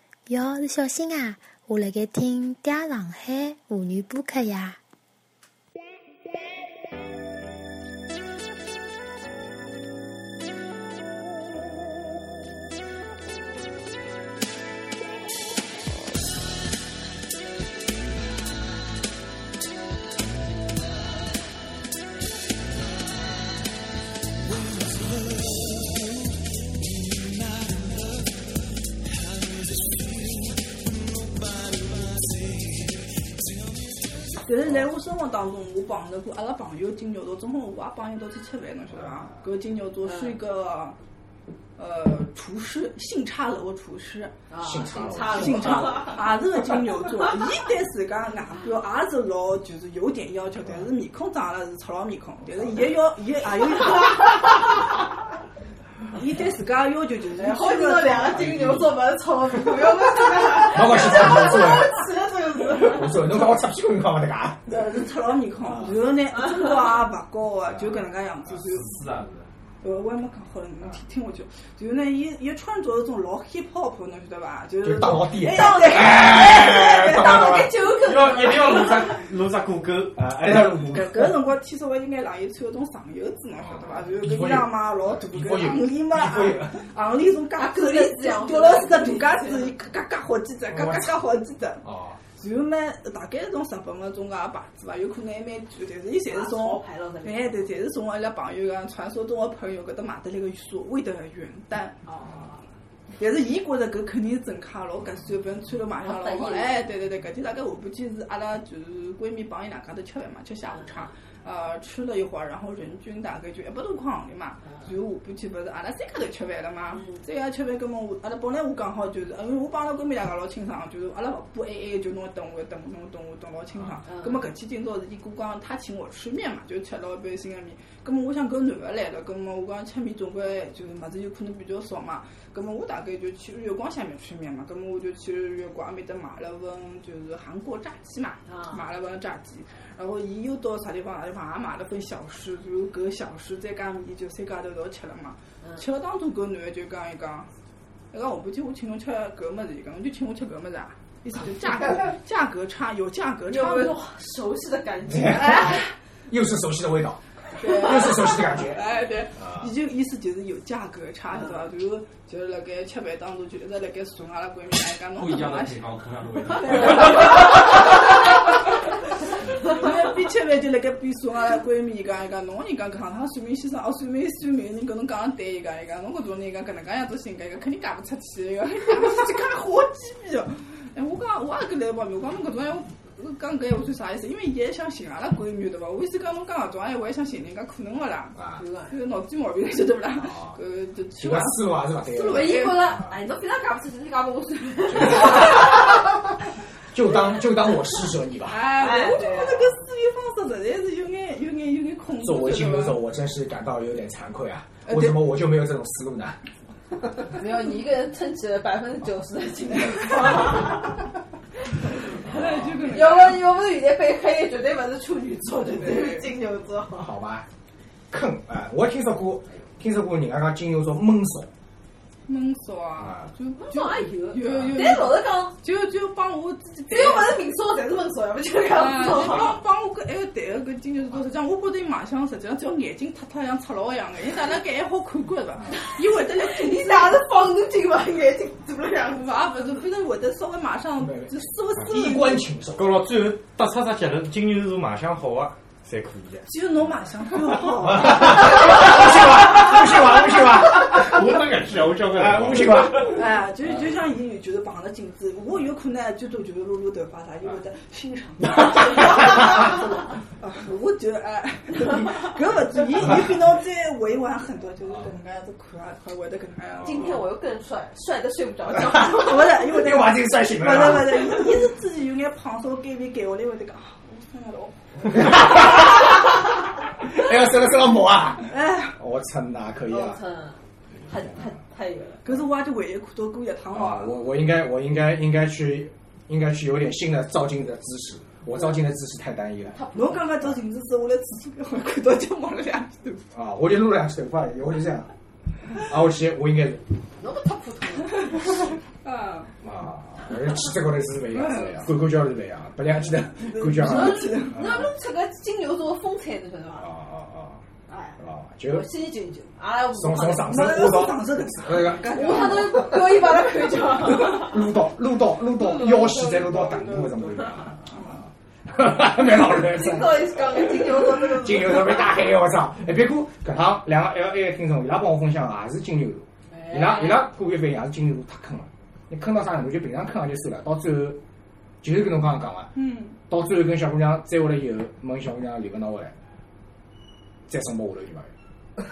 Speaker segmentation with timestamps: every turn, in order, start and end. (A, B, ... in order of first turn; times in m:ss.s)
0:00.3-0:04.8 A
0:34.3-0:41.0 B
0:38.9-0:39.3 C
0:40.0-0:40.4 D
0:41.8-0:44.3 B
0:44.5-0:46.2 D
0:44.6-0:46.2 C
0:45.3-0:54.6 B
0:56.1-0:58.5 B
0:57.3-1:03.4 D
0:58.3-0:58.8 E
1:00.6-1:02.1 C
1:02.7-1:04.8 C
1:04.7-1:08.9 B
1:05.6-1:06.0 C
1:08.4-1:09.5 E
1:09.8-1:16.3 B
1:14.8-1:17.7 C
1:15.4-1:19.2 D
1:18.0-1:20.2 E
1:20.1-1:21.4 C
1:20.8-1:31.8 B
1:23.7-1:26.8 C
1:27.6-1:29.7 D
1:30.7-1:31.1 C
1:31.8-1:32.2 C
1:32.4-1:42.0 B
1:36.3-1:37.7 D
1:42.0-1:42.6 D
1:43.2-2:27.5 B
1:46.0-1:46.8 D
2:03.7-2:04.0 C
2:04.1-2:04.4 D
2:18.5-2:18.8 D
2:28.1-2:34.0 B
2:33.5-2:35.8 D
2:35.1-2:39.7 C
2:35.2-2:35.9 B
2:37.6-2:45.8 B
2:45.2-2:47.6 E
2:46.6-2:47.4 B
2:46.7-2:47.4 D
2:49.6-3:08.4 B
3:08.4-3:08.6 C
3:08.5-3:09.0 D
3:08.9-3:11.6 B
3:10.2-3:10.6 C
3:11.2-3:13.2 C
3:12.0-3:16.0 D
3:12.3-3:12.9 B
3:14.9-3:16.1 C
3:16.9-3:18.7 C
3:18.5-3:23.0 B
3:18.8-3:19.7 D
3:22.2-3:26.4 C
3:24.8-3:25.3 B
3:27.3-3:31.0 D
3:32.2-3:33.4 B
3:32.2-3:32.8 C
3:32.8-3:37.1 D
3:35.7-3:36.3 B
3:36.9-3:37.4 C
3:38.1-3:41.5 C
3:42.2-3:47.4 B
3:43.0-3:43.3 C
3:43.6-3:45.6 D
3:46.9-3:49.6 D
3:48.7-3:57.2 B
3:49.2-3:49.5 C
3:56.2-3:59.4 D
3:59.1-4:02.5 B
4:01.0-4:03.0 C
4:02.7-4:06.5 E
4:06.5-4:08.6 B
4:07.8-4:11.3 C
4:10.6-4:13.2 E
4:12.1-4:13.2 C
4:13.0-4:27.2 B
4:26.8-4:29.5 D
4:28.9-4:31.4 C
4:29.0-4:35.6 B
4:35.1-4:36.2 C
4:37.0-4:40.2 C
4:38.5-4:39.0 B
4:39.9-4:42.2 D
4:42.2-4:44.2 B
4:43.7-4:49.8 C
4:49.7-4:50.3 D
4:49.9-4:53.2 B
4:53.3-4:55.1 C
4:55.7-4:56.8 C
4:57.2-4:58.4 D
4:59.0-4:59.5 B
4:59.6-5:04.9 C
5:01.3-5:01.9 B
5:03.4-5:04.6 B
5:03.7-5:06.9 D
5:06.8-5:07.6 C
5:07.9-5:10.7 D
5:08.2-5:08.9 C
5:09.9-5:12.4 C
5:10.4-5:13.0 B
5:12.1-5:14.6 D
5:14.2-5:17.9 C
5:15.6-5:17.2 B
5:17.9-5:18.2 B
5:18.7-5:31.2 C
5:19.3-5:22.1 D
5:26.5-5:27.3 D
5:31.8-5:32.7 C
5:32.7-5:33.2 B
5:33.3-5:36.1 C
5:37.5-5:38.3 C